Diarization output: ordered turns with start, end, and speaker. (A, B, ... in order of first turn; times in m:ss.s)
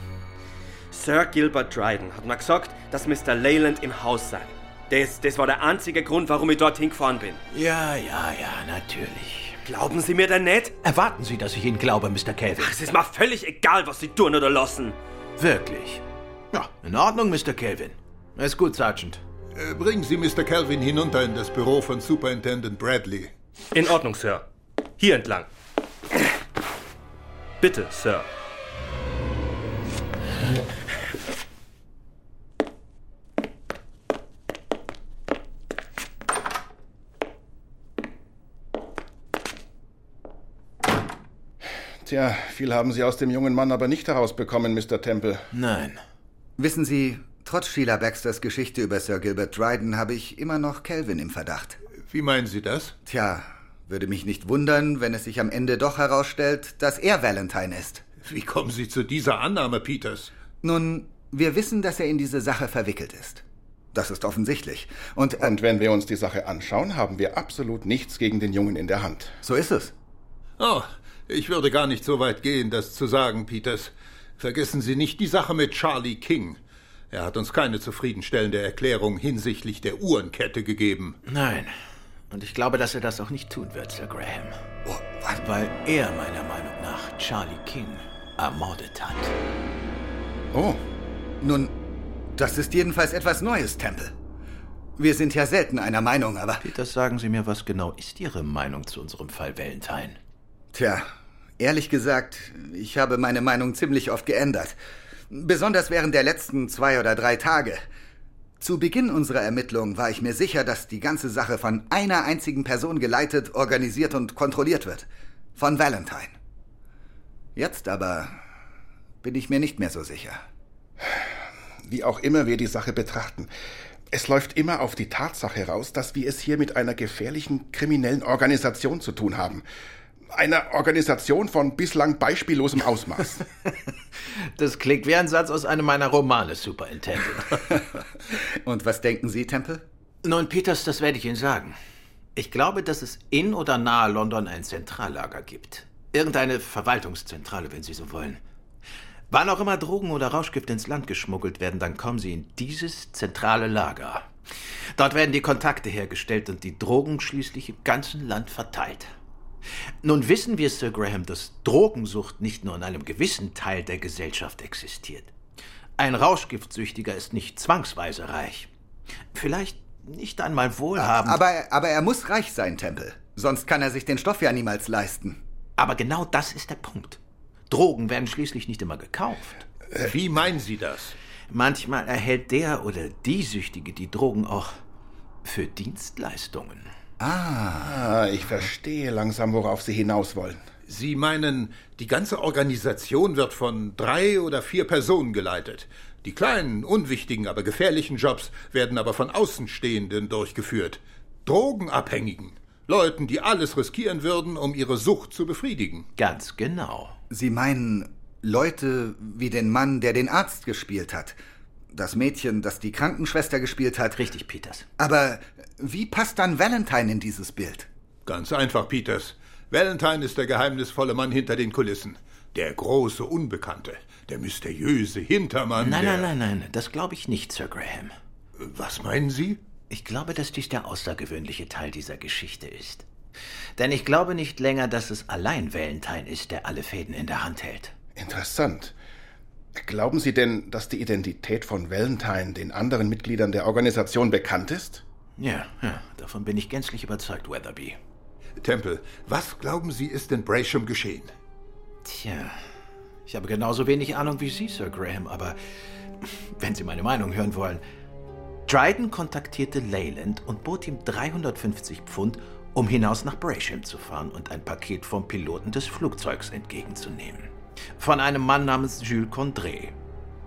0:00.9-0:07.4 A
0:07.5-0:09.6 B
0:09.6-0:10.8 A
0:10.8-0:12.8 B
0:12.6-0:15.0 A
0:15.4-0:19.2 B
0:19.5-0:23.3 C
0:23.7-0:24.4 A
0:25.0-0:25.5 A
0:27.6-0:28.3 A
0:42.0-0:45.4 D
0:45.5-0:46.0 B
0:46.6-0:51.8 E
0:52.1-0:52.9 C
0:53.0-0:58.0 E
0:58.2-1:00.3 C
1:00.6-1:05.5 E
1:05.4-1:09.4 D
1:09.4-1:09.9 E
1:10.6-1:16.6 C
1:17.1-1:21.2 C
1:21.3-1:21.8 B
1:22.3-1:24.6 B
1:24.8-1:25.4 E
1:25.3-1:29.3 B
1:31.4-1:31.8 E
1:32.4-1:34.1 E
1:35.0-1:36.6 E
1:36.6-1:40.2 B
1:40.7-1:41.1 E
1:41.6-1:44.8 E
1:45.3-1:47.8 E
1:48.6-1:56.3 E
1:57.6-1:58.4 E
1:59.2-2:00.4 E
2:01.0-2:01.3 D
2:01.8-2:03.5 D
2:04.1-2:09.6 D
2:10.3-2:13.4 D
2:14.6-2:17.7 B
2:18.3-2:19.8 E
2:20.2-2:21.8 B
2:22.4-2:28.4 B
2:29.3-2:34.3 B
2:35.0-2:39.1 B
2:40.0-2:45.3 B
2:46.0-2:48.7 B
2:49.3-2:51.4 B
2:51.0-2:55.4 E
2:55.8-2:57.2 B
2:57.7-2:59.6 B
2:59.9-3:01.1 C
3:01.5-3:04.7 B
3:05.4-3:06.9 B
3:07.2-3:08.0 E
3:07.8-3:10.6 D
3:10.9-3:26.1 C
3:26.2-3:27.1 B
3:27.3-3:31.4 E
3:31.9-3:34.2 E
3:34.2-3:34.8 B
3:35.0-3:37.9 E
3:38.2-3:46.3 C
3:45.8-3:48.1 B
3:48.6-3:49.6 C
3:49.9-3:53.0 B
3:53.8-3:57.9 B
3:58.2-3:58.9 D
3:59.8-4:05.0 D
4:05.4-4:08.0 B
4:08.6-4:11.3 C
4:12.0-4:12.6 B
4:13.3-4:15.6 B
4:16.2-4:17.8 B
4:18.7-4:29.9 B